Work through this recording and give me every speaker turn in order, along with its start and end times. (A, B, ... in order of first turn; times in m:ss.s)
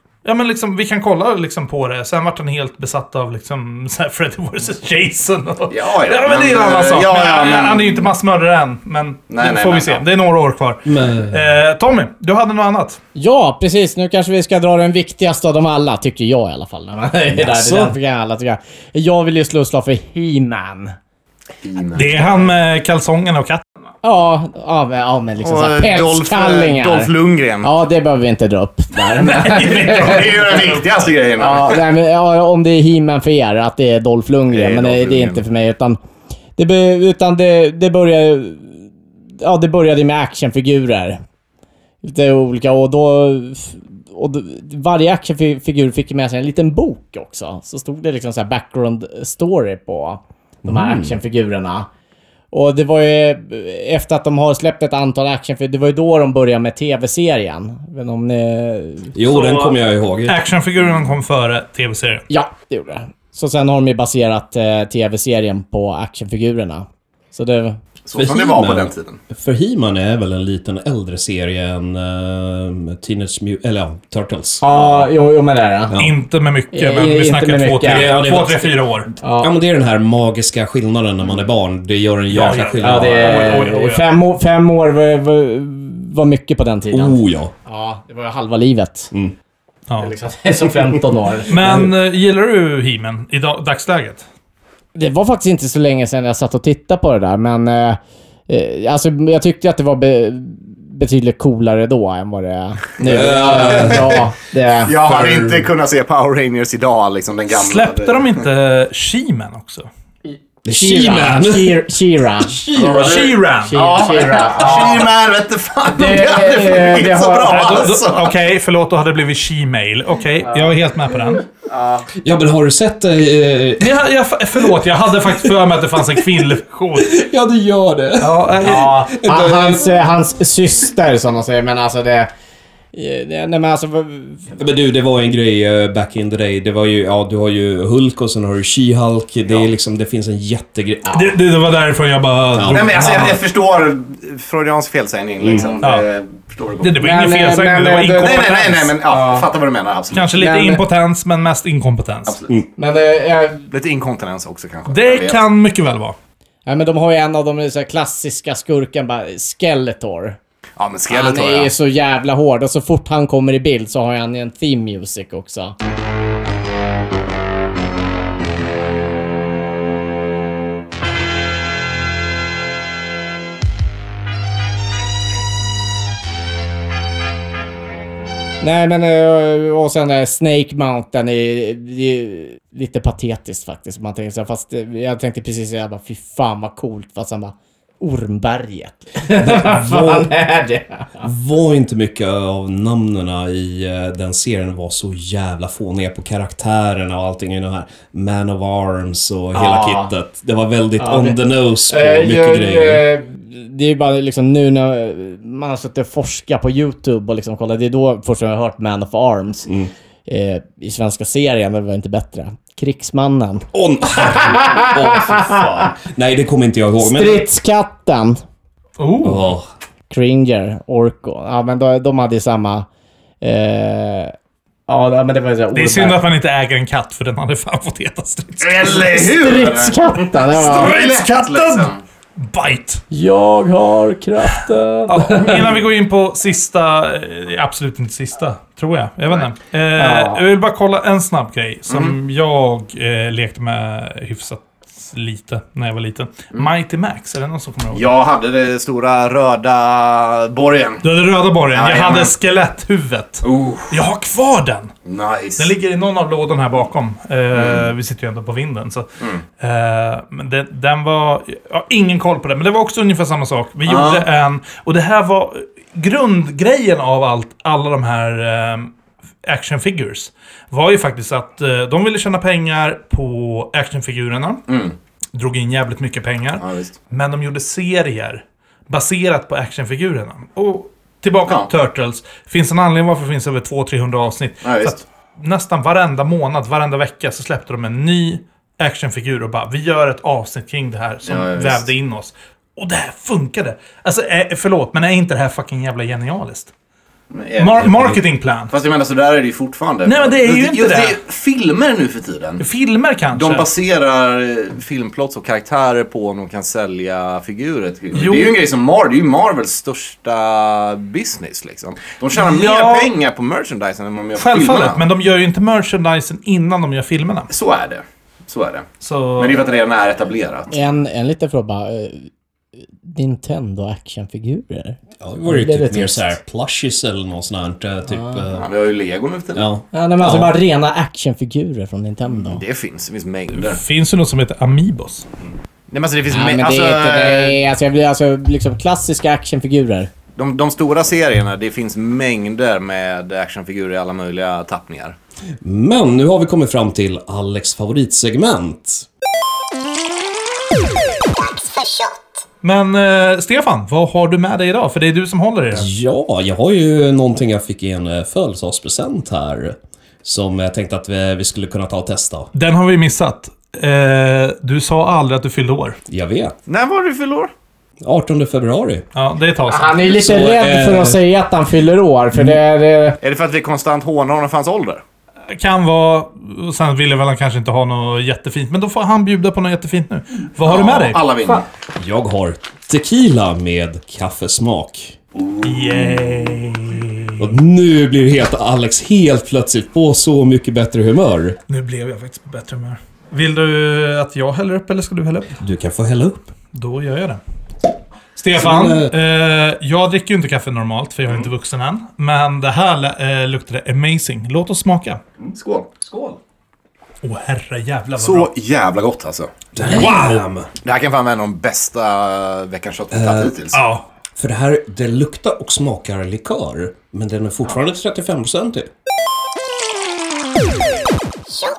0:00.2-0:13.0 A
0:05.7-0:08.1 B
0:09.3-0:10.0 B
0:10.8-0:11.4 C
0:13.1-0:20.9 D
0:17.3-0:17.9 C
0:21.6-0:22.5 B
0:21.9-0:23.6 A
0:24.0-0:27.1 D
0:25.4-0:27.7 B
0:27.6-0:30.5 D
0:29.0-0:31.1 A
0:29.5-0:31.8 B
0:31.4-0:36.0 D
0:34.5-0:35.4 B
0:36.6-0:38.8 D
0:39.4-0:41.2 D
0:42.0-0:51.9 D
0:50.6-0:51.2 C
0:52.5-0:59.1 D
0:59.1-1:00.4 C
0:59.3-0:59.7 A
1:00.2-1:02.2 A
1:02.3-1:07.8 D
1:08.0-1:09.2 B
1:08.1-1:15.0 C
1:14.6-1:16.0 D
1:16.0-1:19.1 A
1:16.7-1:18.1 D
1:17.8-1:23.7 C
1:19.2-1:19.5 D
1:22.3-1:24.0 A
1:22.8-1:29.1 D
1:26.9-1:27.5 C
1:30.0-1:31.6 D
1:31.5-1:34.2 A
1:31.6-1:31.9 C
1:34.9-1:45.0 D
1:43.0-1:44.2 C
1:43.3-1:44.2 B
1:44.8-1:48.4 B
1:45.0-1:45.6 C
1:47.5-1:49.9 A
1:50.2-1:55.1 D
1:50.6-1:51.8 C
1:52.4-1:53.2 C
1:52.7-1:58.3 B
1:52.8-1:54.8 A
1:55.9-1:57.9 D
1:57.5-2:01.4 A
2:00.4-2:00.8 D
2:01.6-2:02.1 D
2:02.2-2:04.0 C
2:03.8-2:07.2 A
2:04.6-2:10.0 C
2:08.2-2:09.1 A
2:08.6-2:12.3 D
2:12.9-2:14.5 D
2:14.6-2:21.3 C
2:21.1-2:23.4 A
2:22.5-2:23.0 C
2:22.7-2:27.0 B
2:25.4-2:25.7 C
2:26.8-2:29.0 A
2:27.0-2:28.5 D
2:28.2-2:30.3 B
2:29.1-2:29.5 D
2:30.1-2:32.4 A
2:30.3-2:30.8 D
2:32.2-2:32.6 B
2:32.8-2:33.7 D
2:33.7-2:35.4 B
2:34.9-2:36.2 A
2:36.6-2:40.4 D
2:40.8-2:41.7 B
2:41.1-2:45.7 D
2:58.6-3:11.2 D
3:09.4-3:10.3 C
3:11.2-3:23.0 C
3:19.5-3:20.1 D
3:21.0-3:29.7 D
3:30.2-3:35.8 D
3:33.7-3:37.4 C
3:37.0-3:38.4 D
3:39.0-3:39.6 A
3:39.2-3:39.7 C
3:40.1-3:42.9 D
3:43.4-3:44.3 D
3:44.9-3:46.2 D
3:45.7-3:49.0 A
3:48.6-3:52.0 B
3:48.9-3:50.9 D
3:50.6-3:53.0 A
3:53.1-3:55.7 D
3:55.1-4:08.0 A
4:00.0-4:00.4 D
4:01.9-4:02.1 B
4:07.9-4:11.0 B
4:11.0-4:14.9 A
4:11.7-4:12.3 B
4:13.4-4:14.0 B
4:15.0-4:15.7 B
4:15.6-4:19.1 A
4:17.5-4:17.9 B
4:19.6-4:28.9 A
4:23.8-4:24.2 B
4:29.4-4:34.6 A
4:34.7-4:34.9 B
4:35.3-4:56.7 A
4:36.6-4:36.9 B
4:44.6-4:45.0 B
4:51.2-4:51.9 B
4:57.3-4:58.2 B
4:57.6-4:58.7 A
4:58.7-5:02.6 B
5:00.0-5:01.2 A
5:02.6-5:03.7 A
5:03.3-5:15.0 B
5:08.1-5:08.6 A
5:12.3-5:13.1 A
5:14.4-5:17.5 A
5:17.5-5:20.7 B
5:19.0-5:19.6 A
5:20.7-5:22.3 D
5:23.0-5:26.4 D
5:25.2-5:28.7 C
5:28.1-5:28.4 D
5:28.6-5:29.7 B
5:29.5-5:30.5 C
5:29.9-5:32.6 D
5:32.4-5:33.8 B
5:33.5-5:35.3 A
5:35.9-5:37.6 B
5:36.3-5:40.1 D
5:40.4-5:45.2 B
5:45.6-5:49.1 C
5:52.6-5:55.9 A
5:55.7-6:02.5 C
6:02.5-6:06.0 A
6:06.1-6:06.5 C
6:06.7-6:07.5 B
6:08.0-6:09.1 C
6:09.1-6:10.1 A
6:09.7-6:13.2 D
6:10.0-6:11.2 C
6:13.2-6:15.0 B
6:15.5-6:21.2 A
6:20.6-6:21.6 B
6:22.0-6:25.2 C
6:25.4-6:26.1 B
6:25.6-6:27.5 A
6:27.4-6:31.6 C
6:31.7-6:35.6 A
6:35.6-6:36.5 C
6:36.7-6:37.4 A
6:38.4-6:45.2 A
6:38.5-6:39.1 C
6:45.4-6:46.3 B
6:47.2-6:48.5 A
6:48.2-6:49.5 B
6:49.7-6:50.7 C
6:49.8-6:50.4 A
6:50.8-6:53.8 B
6:53.1-6:53.5 C
6:53.7-6:54.0 A
6:54.4-6:58.9 C